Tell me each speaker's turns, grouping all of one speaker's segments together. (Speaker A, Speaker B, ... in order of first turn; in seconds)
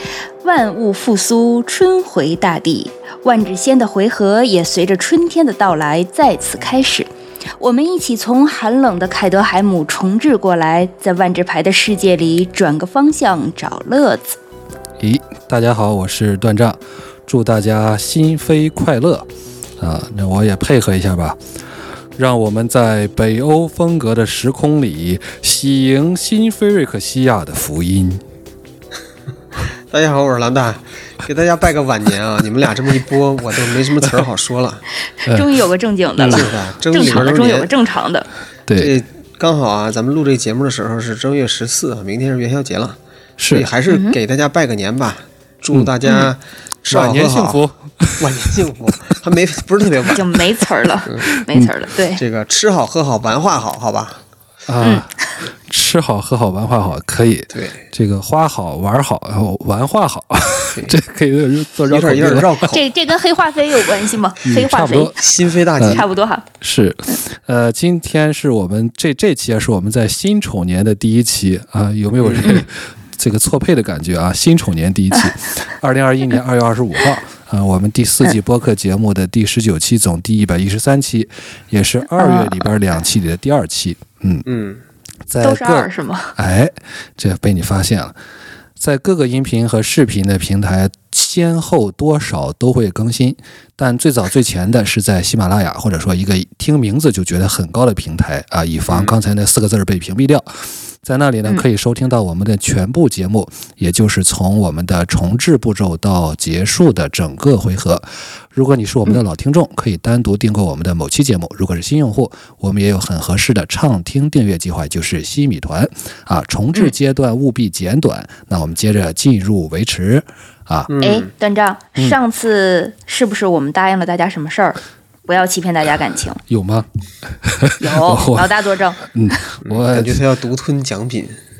Speaker A: 0.4-14.4, 35.2-38.3, 43.9-44.2, 50.1-52.2, 62.7-65.1, 65.9-66.4, 82.2-82.6, 85.4-86.3, 121.0-126.4, 127.8-129.1
Speaker B: 15.0-19.3, 19.8-21.4, 22.1-28.2, 36.2-36.5, 38.7-39.0, 43.4-43.7, 46.9-48.5, 51.2-51.7, 54.7-62.7, 64.4-66.0, 66.6-84.5, 85.3-88.1, 88.8-100.5, 101.0-120.9, 126.5-126.8, 127.4-130.2
Speaker C: 29.9-34.8, 36.3-37.7, 38.8-43.0, 43.5-47.6, 48.2-50.3, 52.1-54.2, 57.5-57.8, 61.9-62.8, 65.2-66.0, 72.2-72.5, 84.4-84.8, 98.9-99.2, 120.9-121.3, 129.6-131.4